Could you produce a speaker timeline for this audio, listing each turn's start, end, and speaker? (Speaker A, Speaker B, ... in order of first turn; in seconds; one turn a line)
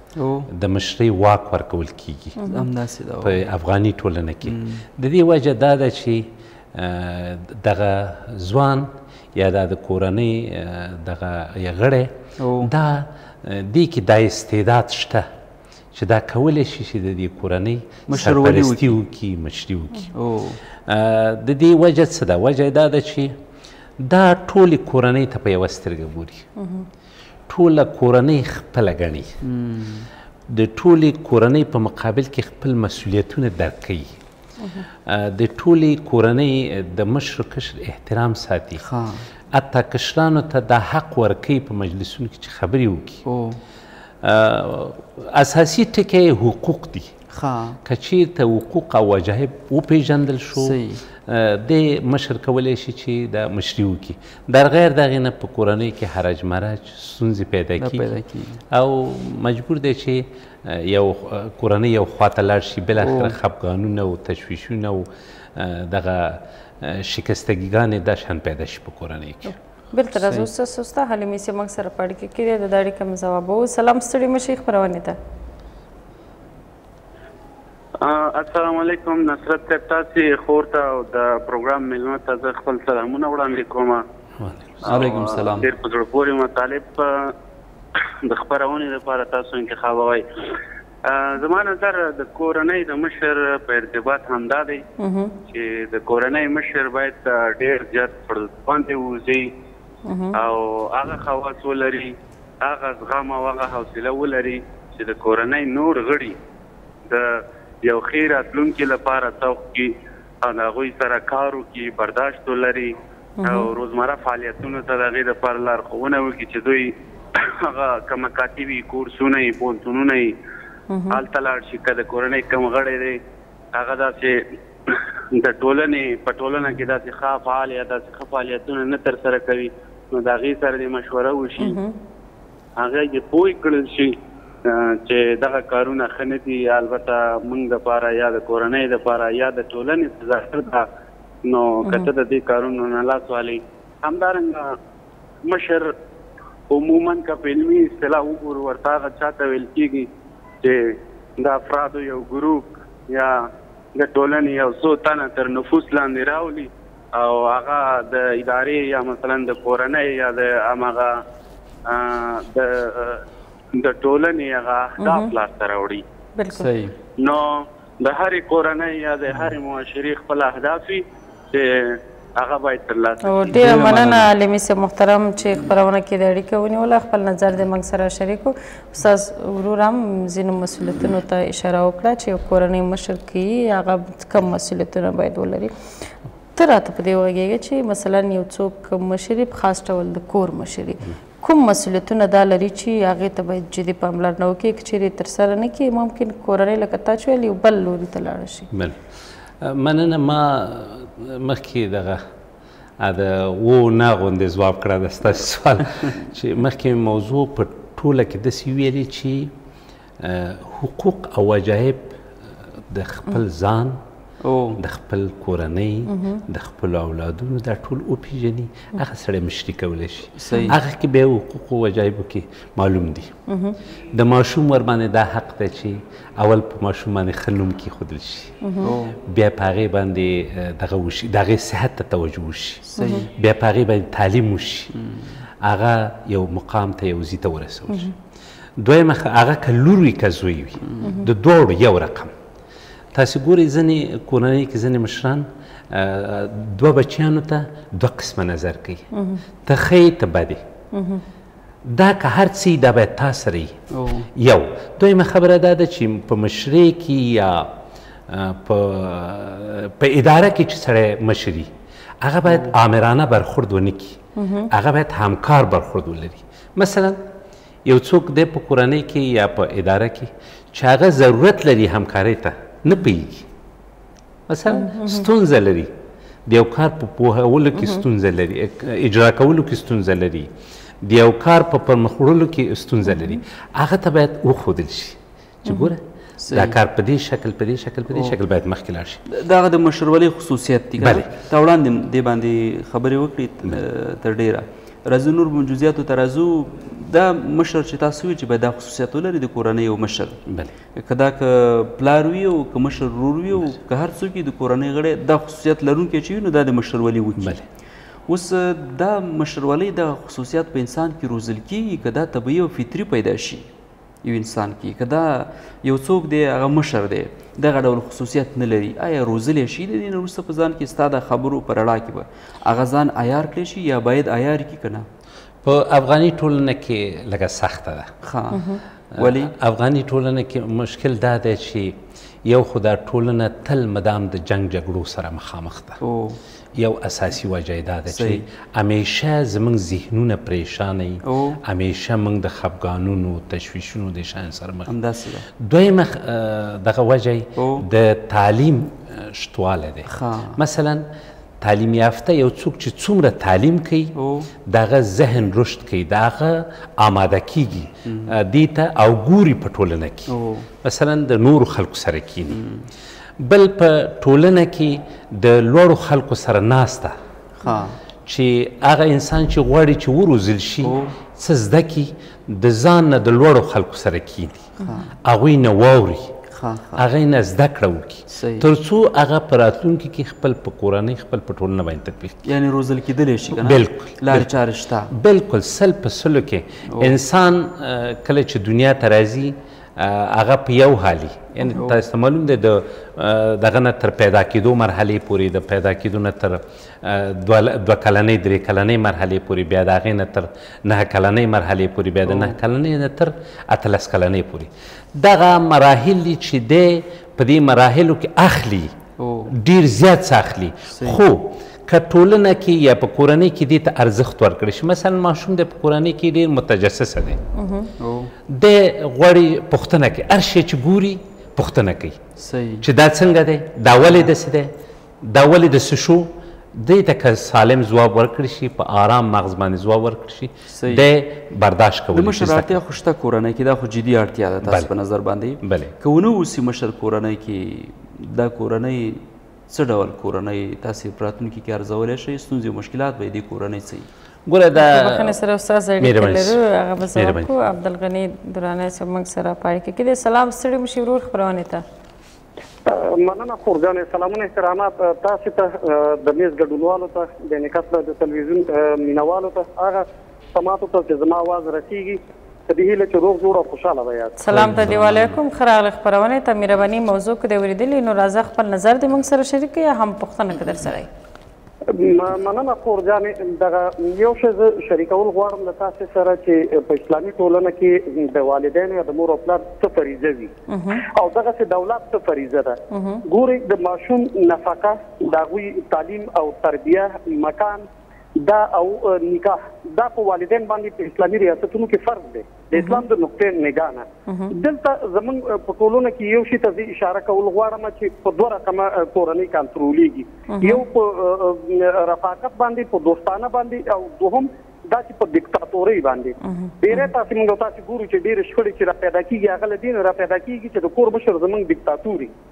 Speaker A: 0.2-0.5
Speaker B: 0.5-2.4
Speaker C: 2.4-2.6
Speaker A: 2.5-3.4
Speaker B: 3.2-15.3
Speaker A: 4.5-4.8
Speaker A: 12.4-12.7
Speaker B: 15.9-20.1
Speaker A: 18.1-19.0
Speaker A: 20.1-20.6
Speaker B: 20.9-23.4
Speaker B: 24.0-26.5
Speaker C: 26.6-26.9
Speaker B: 27.5-29.3
Speaker A: 29.4-30.1
Speaker B: 30.5-34.1
Speaker B: 35.1-38.8
Speaker A: 38.8-39.2
Speaker B: 39.5-43.2
Speaker A: 43.3-43.6
Speaker B: 44.2-47.1
Speaker A: 47.3-47.8
Speaker B: 47.9-58.1
Speaker A: 50.6-51.0
Speaker A: 57.8-58.6
Speaker B: 58.7-69.6
Speaker A: 63.0-63.4
Speaker C: 69.9-75.2
Speaker A: 70.2-70.5
Speaker D: 78.0-84.0
Speaker B: 84.4-85.0
Speaker D: 84.8-87.3
Speaker A: 84.9-85.7
Speaker D: 88.2-90.2
Speaker D: 91.0-94.8
Speaker C: 95.0-95.4
Speaker D: 95.5-99.5
Speaker C: 100.1-100.4
Speaker D: 100.3-106.4
Speaker D: 107.1-120.3
Speaker C: 113.4-113.7
Speaker C: 120.9-121.2
Speaker D: 121.1-123.2
Speaker D: 123.7-131.8
Speaker C: 131.6-131.9
Speaker D: 132.8-140.9
Speaker D: 141.4-144.8
Speaker D: 145.4-145.9
Speaker D: 146.7-150.1
Speaker D: 150.6-161.2
Speaker D: 161.9-163.2
Speaker D: 163.7-166.0
Speaker C: 165.0-165.3
Speaker C: 166.4-166.7
Speaker A: 166.6-166.9
Speaker D: 167.2-173.6
Speaker C: 173.2-185.7
Speaker A: 173.5-174.3
Speaker C: 186.6-198.7
Speaker B: 198.7-199.0
Speaker B: 199.6-202.2
Speaker B: 203.0-209.5
Speaker B: 210.2-212.2
Speaker B: 212.9-214.0
Speaker A: 214.4-214.8
Speaker B: 214.8-223.3
Speaker C: 216.1-216.4
Speaker A: 220.4-220.8
Speaker C: 223.5-223.8
Speaker B: 224.1-228.5
Speaker C: 228.6-228.9
Speaker A: 228.8-229.2
Speaker B: 229.2-234.9
Speaker A: 232.9-233.3
Speaker C: 233.0-233.3
Speaker A: 234.9-235.2
Speaker B: 235.6-238.1
Speaker B: 238.8-242.3
Speaker C: 241.0-241.3
Speaker B: 243.1-249.1
Speaker C: 249.1-249.4
Speaker B: 249.7-250.6
Speaker C: 250.9-251.2
Speaker B: 251.8-253.8
Speaker A: 253.9-254.3
Speaker B: 254.3-257.7
Speaker B: 258.3-261.7
Speaker B: 262.2-264.2
Speaker A: 262.5-262.7
Speaker C: 264.4-264.7
Speaker B: 264.7-267.2
Speaker B: 267.9-273.5
Speaker B: 274.5-275.9
Speaker C: 274.7-275.3
Speaker B: 276.5-280.5
Speaker B: 281.0-289.2
Speaker A: 286.4-286.8
Speaker A: 289.3-300.4
Speaker B: 291.0-291.3
Speaker B: 300.5-300.7
Speaker A: 300.9-307.6
Speaker B: 307.4-307.6
Speaker A: 308.3-313.6
Speaker A: 314.2-325.1
Speaker B: 325.6-328.1
Speaker A: 328.2-329.5
Speaker C: 328.5-328.8
Speaker B: 329.1-336.0
Speaker A: 336.0-336.4
Speaker B: 336.8-344.9
Speaker A: 338.1-338.4
Speaker A: 341.2-341.6
Speaker A: 344.9-345.4
Speaker B: 345.6-351.1
Speaker A: 347.6-347.9
Speaker A: 350.1-350.6
Speaker B: 351.6-354.1
Speaker A: 354.2-354.5
Speaker B: 354.7-362.6
Speaker A: 358.1-358.4
Speaker A: 360.3-360.7
Speaker A: 362.5-362.9
Speaker B: 363.4-367.2
Speaker A: 367.6-368.0
Speaker B: 368.3-374.7
Speaker A: 370.8-371.1
Speaker A: 374.8-375.1
Speaker B: 375.2-376.4
Speaker A: 376.5-377.0
Speaker B: 377.0-382.5
Speaker A: 378.3-378.7
Speaker A: 382.5-385.1
Speaker B: 383.5-384.5
Speaker B: 385.1-408.9
Speaker A: 386.9-387.2
Speaker A: 391.7-392.0
Speaker A: 402.3-402.6
Speaker A: 409.2-409.5
Speaker B: 409.5-417.4
Speaker A: 410.9-411.2
Speaker C: 417.6-417.9
Speaker A: 418.0-418.3
Speaker B: 418.5-422.2
Speaker A: 422.4-422.9
Speaker B: 422.8-432.8
Speaker A: 430.7-431.1
Speaker A: 432.1-444.1
Speaker B: 434.6-434.9
Speaker B: 435.6-435.9
Speaker B: 444.5-445.4
Speaker C: 444.8-451.8
Speaker B: 446.0-446.6
Speaker B: 447.1-447.5
Speaker E: 452.9-464.4
Speaker C: 464.4-471.1
Speaker A: 464.5-465.4
Speaker E: 471.9-487.9
Speaker C: 480.7-481.1
Speaker C: 482.9-483.2
Speaker E: 488.4-512.3
Speaker C: 492.8-493.0
Speaker C: 494.3-494.5
Speaker C: 500.5-500.8
Speaker C: 506.4-507.1